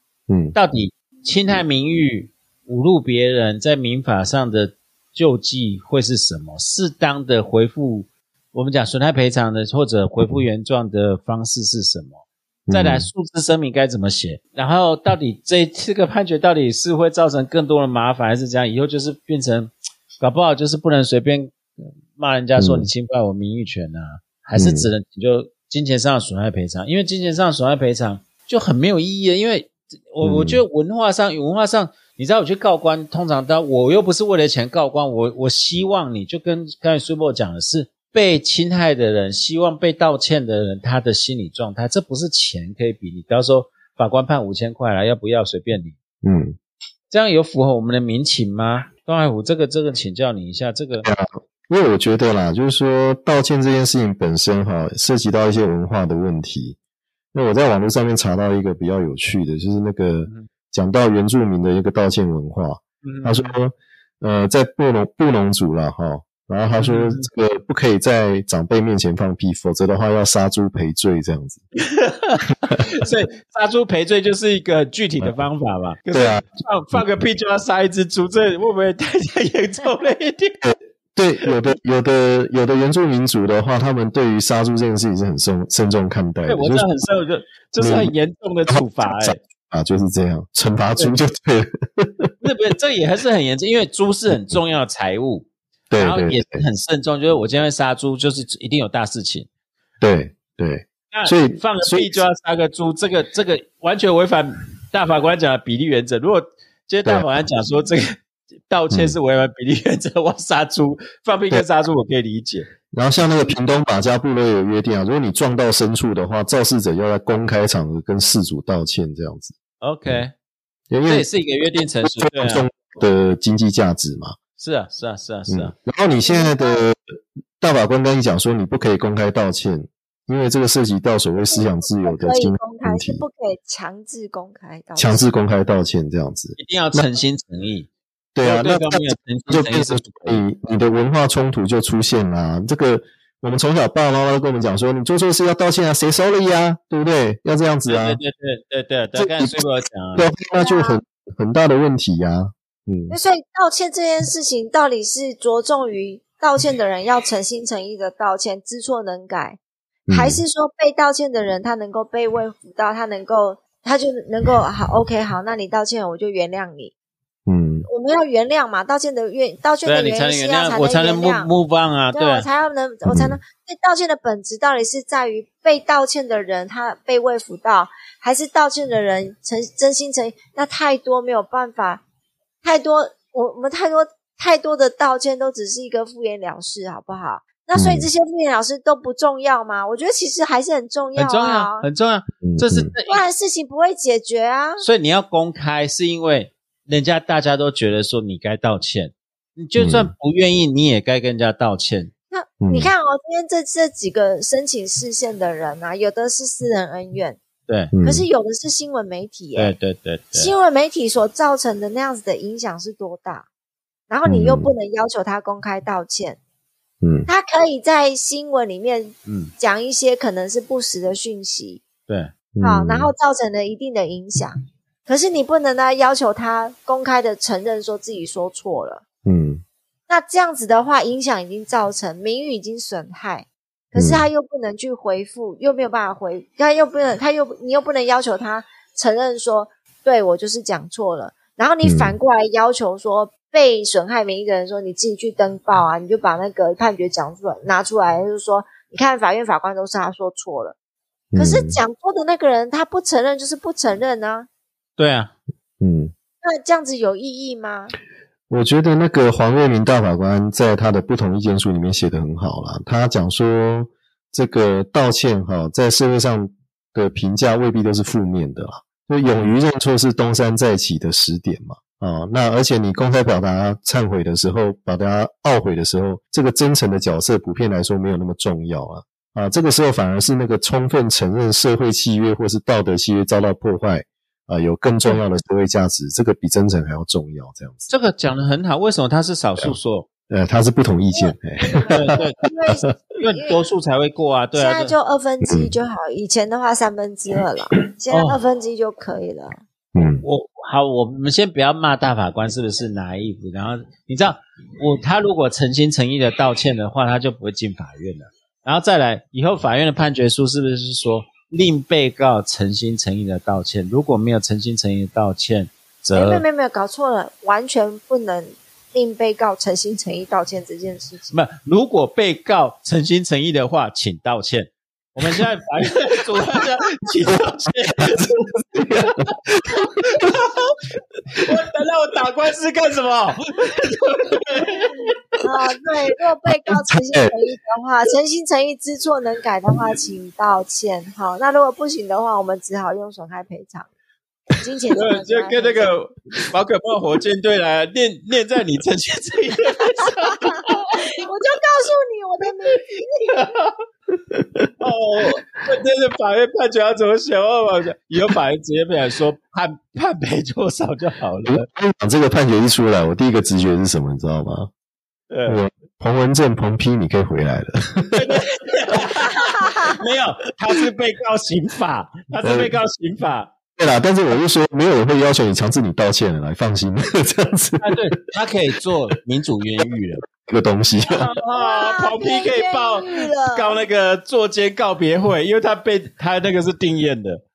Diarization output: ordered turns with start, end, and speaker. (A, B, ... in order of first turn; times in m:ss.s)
0:00.3-0:00.6 A
0:00.6-0:46.0 B
0:12.7-0:13.1 A
0:22.6-0:22.9 A
0:24.6-0:24.9 A
0:30.2-0:30.6 A
0:46.2-0:46.6 A
0:47.1-0:51.1 B
0:51.0-0:56.8 A
0:57.3-1:11.6 A
1:03.0-1:03.5 B
1:06.8-1:07.3 B
1:11.8-1:20.6 B
1:16.1-1:16.4 A
1:20.6-1:26.9 A
1:26.5-1:29.4 B
1:27.8-1:28.1 A
1:28.7-1:32.3 A
1:32.4-1:35.5 B
1:34.3-1:34.6 A
1:35.9-1:36.6 A
1:36.0-1:39.5 B
1:40.0-1:42.2 A
1:41.1-1:52.7 B
1:48.9-1:49.2 A
1:52.9-1:59.5 A
1:59.8-2:00.3 B
2:00.9-2:01.3 A
2:01.1-2:02.7 B
2:02.0-2:04.4 A
2:04.6-2:05.7 B
2:05.5-2:07.0 A
2:06.2-2:06.8 C
2:07.6-2:13.2 A
2:11.5-2:15.3 C
2:15.0-2:17.1 A
2:16.6-2:17.9 B
2:18.4-2:28.2 A
2:18.4-2:20.4 B
2:27.9-2:30.3 B
2:29.2-2:29.6 A
2:30.2-2:33.2 A
2:30.6-2:31.0 C
2:33.1-2:39.6 C
2:40.1-2:40.4 A
2:40.1-2:46.9 C
2:47.5-2:47.9 A
2:47.9-2:51.5 C
2:49.8-2:52.5 B
2:52.1-3:02.0 C
2:53.1-2:53.4 A
3:02.6-3:11.9 C
3:07.8-3:08.1 A
3:11.2-3:13.2 B
3:12.4-3:12.9 A
3:13.1-3:14.9 C
3:14.8-3:22.1 B
3:19.8-3:20.1 A
3:22.3-3:27.4 C
3:22.6-3:22.9 A
3:27.9-3:28.2 A
3:28.0-3:29.8 C
3:29.6-3:30.5 B
3:30.3-3:33.5 C
3:34.1-3:36.4 C
3:34.2-3:34.7 A
3:37.0-3:37.3 A
3:37.3-3:41.8 C
3:42.1-3:42.3 B
3:42.6-3:43.1 A
3:42.6-3:49.0 C
3:49.2-3:49.6 A
3:50.1-4:10.8 C
3:54.0-3:54.3 A
4:01.8-4:02.2 A
4:11.3-4:11.8 A
4:11.4-4:14.5 C
4:15.0-4:15.3 B
4:15.8-4:16.1 A
4:16.4-4:17.9 C
4:18.5-4:47.9 A
4:47.9-4:50.1 B
4:50.3-4:52.2 A
4:51.1-4:53.6 C
4:51.9-4:52.5 B
4:53.2-4:55.0 B
4:54.5-4:59.6 C
4:55.4-4:55.7 A
4:58.1-4:58.4 B
4:59.9-5:00.2 A
5:00.2-5:16.4 B
5:16.1-5:21.3 C
5:21.3-5:28.3 B
5:28.0-5:30.3 A
5:30.1-5:30.8 B
5:31.3-5:35.1 B
5:35.4-5:43.9 C
5:36.7-5:37.4 A
5:44.6-5:46.0 C
5:44.9-5:51.2 B
5:50.3-5:53.3 C
5:53.2-5:53.8 B
5:54.3-5:54.7 A
5:54.8-6:01.6 B
6:01.5-6:04.7 A
6:05.3-6:05.6 B
6:05.5-6:08.4 A
6:08.2-6:13.5 B
6:09.3-6:10.0 C
6:12.4-6:12.8 A
6:13.8-6:18.0 A
6:17.8-6:20.2 B
6:20.4-6:21.3 A
6:21.0-6:27.4 B
6:21.5-6:23.8 C